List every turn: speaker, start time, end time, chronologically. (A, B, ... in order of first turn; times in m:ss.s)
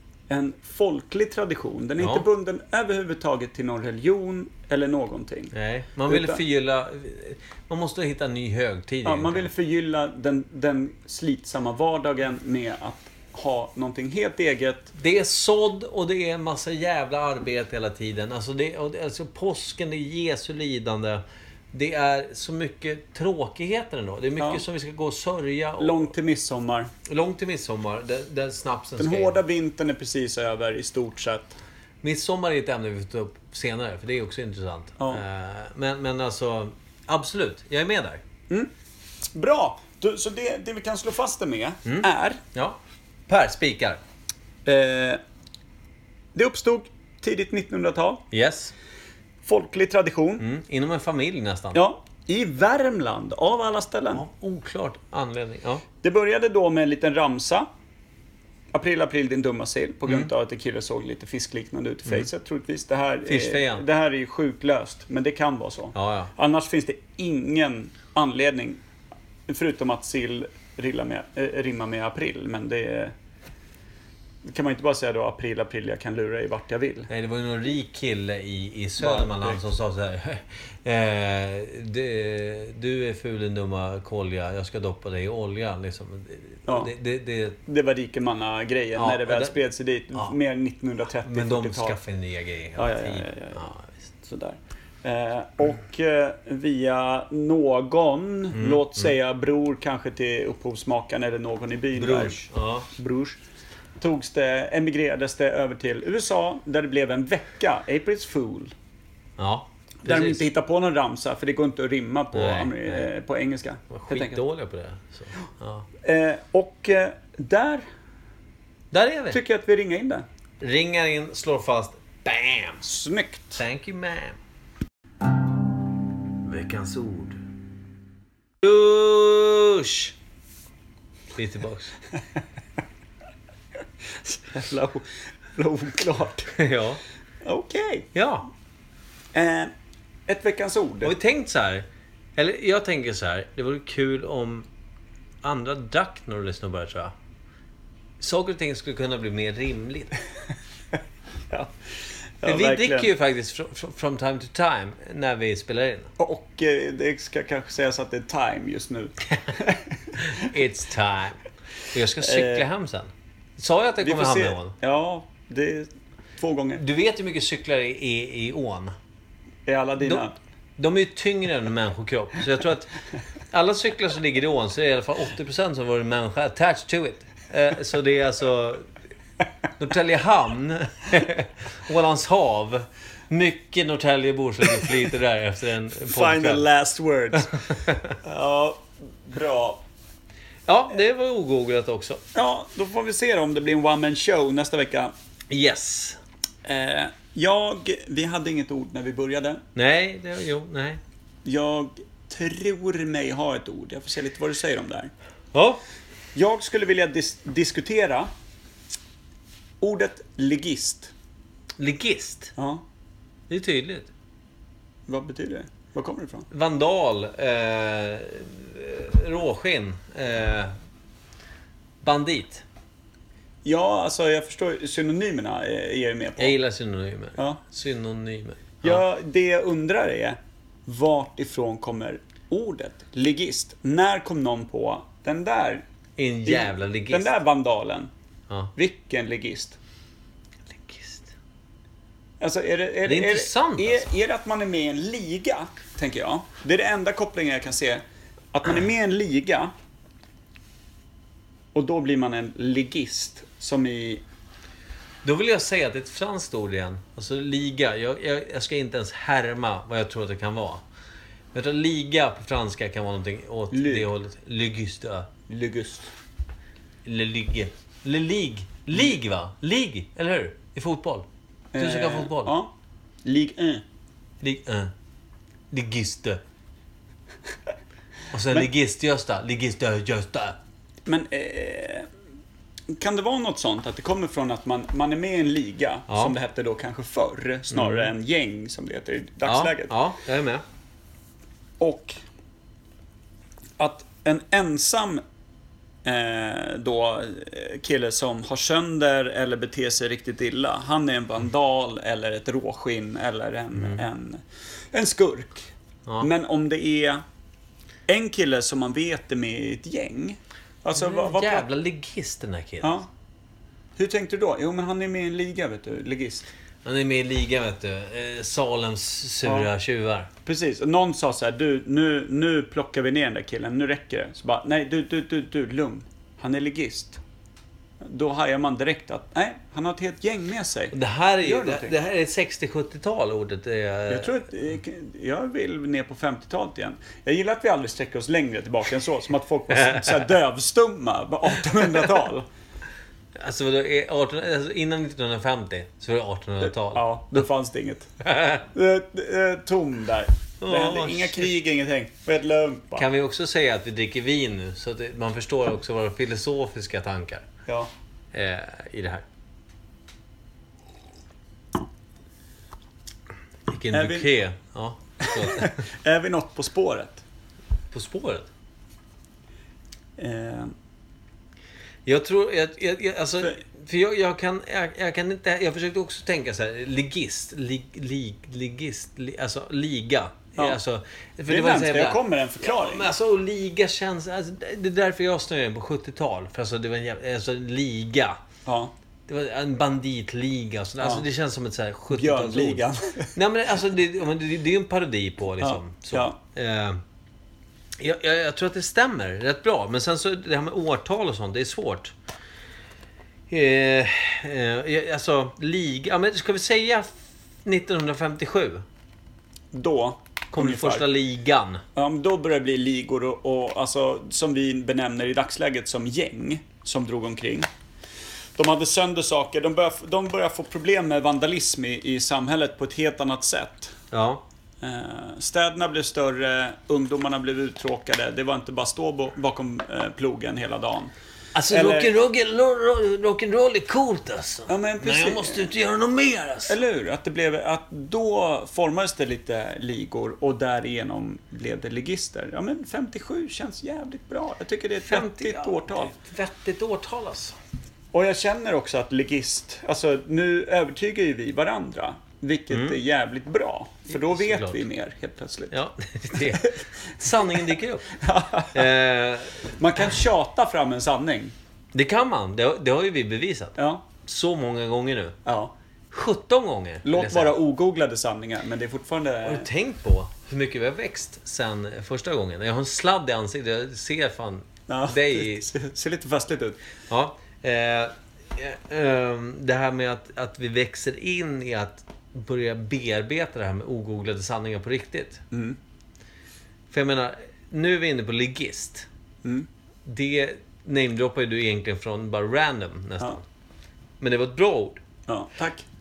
0:00.3-0:05.5 A
0:02.0-0:02.3 B
0:05.5-0:09.5 B
0:06.1-0:06.4 A
0:09.0-0:14.9 A
0:15.0-0:26.1 B
0:25.8-0:26.9 A
0:27.0-0:29.4 B
0:29.0-0:31.6 A
0:32.0-0:38.2 B
0:39.3-0:42.4 A
0:41.8-0:44.0 B
0:44.6-0:45.2 A
0:46.3-0:48.2 A
0:48.3-0:48.7 B
0:49.4-0:50.4 A
0:50.4-0:51.8 B
0:51.7-0:54.2 A
0:54.1-0:55.8 B
0:56.0-0:57.7 A
0:58.7-1:08.8 A
1:00.0-1:00.3 B
1:03.2-1:03.9 B
1:05.9-1:06.3 B
1:09.5-1:13.1 A
1:14.4-1:17.1 A
1:17.1-1:27.6 B
1:19.0-1:19.6 A
1:27.7-1:32.0 A
1:29.0-1:29.6 B
1:31.2-1:34.1 B
1:32.8-1:33.7 A
1:34.2-1:43.4 A
1:38.5-1:39.1 B
1:42.0-1:42.9 B
1:44.0-1:48.7 A
1:49.4-1:50.4 B
1:50.0-1:54.4 A
1:52.3-1:53.1 B
1:53.9-1:55.9 B
1:56.0-1:57.9 A
1:58.9-1:59.4 B
1:59.3-2:00.3 A
2:00.6-2:02.8 B
2:02.8-2:03.6 A
2:03.6-2:04.4 B
2:06.4-2:07.4 B
2:08.6-2:10.1 B
2:11.3-2:11.9 B
2:14.2-2:16.5 A
2:16.5-2:17.0 B
2:17.4-2:18.1 A
2:18.1-2:18.5 B
2:19.3-2:19.7 A
2:20.3-2:21.1 A
2:21.0-2:24.7 B
2:25.4-2:27.1 B
2:28.2-2:30.2 B
2:32.4-2:33.1 A
2:32.4-2:36.1 B
2:36.2-2:40.4 A
2:40.2-2:44.7 B
2:42.2-2:42.7 A
2:44.0-2:46.8 A
2:46.8-2:48.9 B
2:49.7-2:50.4 A
2:50.8-2:53.0 B
2:53.5-2:58.9 B
2:59.8-3:06.7 B
3:06.0-3:07.5 A
3:07.7-3:08.1 B
3:08.2-3:09.8 A
3:10.7-3:12.2 B
3:12.3-3:15.1 A
3:15.5-3:16.2 B
3:16.6-3:19.6 A
3:19.7-3:21.0 B
3:21.4-3:25.1 A
3:25.5-3:25.8 B
3:26.3-3:28.3 A
3:29.8-3:31.1 A
3:31.8-3:32.5 B
3:32.6-3:32.8 A
3:33.5-3:34.1 B
3:35.1-3:36.5 A
3:36.5-3:40.7 B
3:42.0-3:42.6 B
3:43.6-3:46.6 A
3:46.4-3:49.0 B
3:48.8-3:55.8 A
3:56.2-3:57.3 B
3:56.4-3:58.1 A
3:58.7-3:59.8 A
4:00.7-4:01.3 B
4:02.4-4:09.7 A
4:03.0-4:04.1 B
4:11.7-4:14.2 A
4:15.2-4:20.8 B
4:21.5-4:25.3 B
4:23.7-4:24.1 A
4:25.5-4:26.1 A
4:27.0-4:31.3 B
4:31.7-4:32.7 A
4:31.8-4:32.6 B
4:33.2-4:33.8 A
4:34.4-4:34.9 B
4:35.7-4:36.4 B
4:38.3-4:40.6 B
4:41.0-4:42.1 A
4:42.9-4:49.9 A
4:46.1-4:46.3 B
4:47.7-4:48.1 B
4:49.4-4:50.6 B
4:51.8-4:52.2 A
4:53.8-4:55.2 A
4:56.0-5:07.2 A
5:03.8-5:04.0 B
5:08.1-5:11.7 A
5:10.9-5:13.0 B
5:12.8-5:13.1 A
5:14.0-5:16.5 A
5:16.8-5:20.3 B
5:19.4-5:19.7 A
5:20.4-5:27.2 A
5:28.0-5:32.0 A
5:30.9-5:34.4 B
5:34.1-5:42.5 A
5:43.4-5:47.4 B
5:46.9-5:48.1 A
5:48.2-5:48.6 B
5:48.7-5:53.1 A
5:50.6-5:51.5 B
5:53.0-5:57.5 B
5:58.3-5:59.2 B
6:03.7-6:05.8 B
6:03.9-6:04.3 A
6:05.2-6:07.2 A
6:07.9-6:08.5 B
6:10.2-6:10.7 A
6:12.0-6:28.4 B
6:21.5-6:23.1 A
6:28.7-6:28.9 A
6:29.3-6:32.8 B
6:31.0-6:31.2 A
6:32.1-6:33.3 A
6:33.3-6:37.0 B
6:35.6-6:36.4 A
6:38.0-6:42.1 B
6:43.5-6:47.1 B
6:47.6-6:48.8 B
6:49.7-6:51.0 A
6:50.5-6:51.8 B
6:52.0-6:57.7 A
6:58.6-7:04.0 A
7:04.1-7:04.4 B
7:04.8-7:11.1 A
7:11.6-7:16.8 B
7:11.7-7:12.1 A
7:14.7-7:15.7 A
7:16.7-7:26.1 A
7:25.0-7:27.6 B
7:28.1-7:35.7 A
7:32.7-7:33.0 B
7:34.1-7:34.8 B
7:35.7-7:38.2 B
7:36.3-7:38.9 A
7:38.7-7:39.7 B
7:39.6-7:41.5 A
7:41.9-7:45.4 B
7:43.8-7:44.0 A
7:45.4-7:45.7 A
7:46.1-7:47.6 B
7:47.0-7:49.7 A
7:49.4-7:55.7 B
7:54.9-7:56.8 A
7:57.1-8:05.4 B
8:05.5-8:05.8 A
8:06.9-8:09.1 B
8:10.0-8:13.4 B
8:14.2-8:15.0 B
8:15.3-8:15.8 A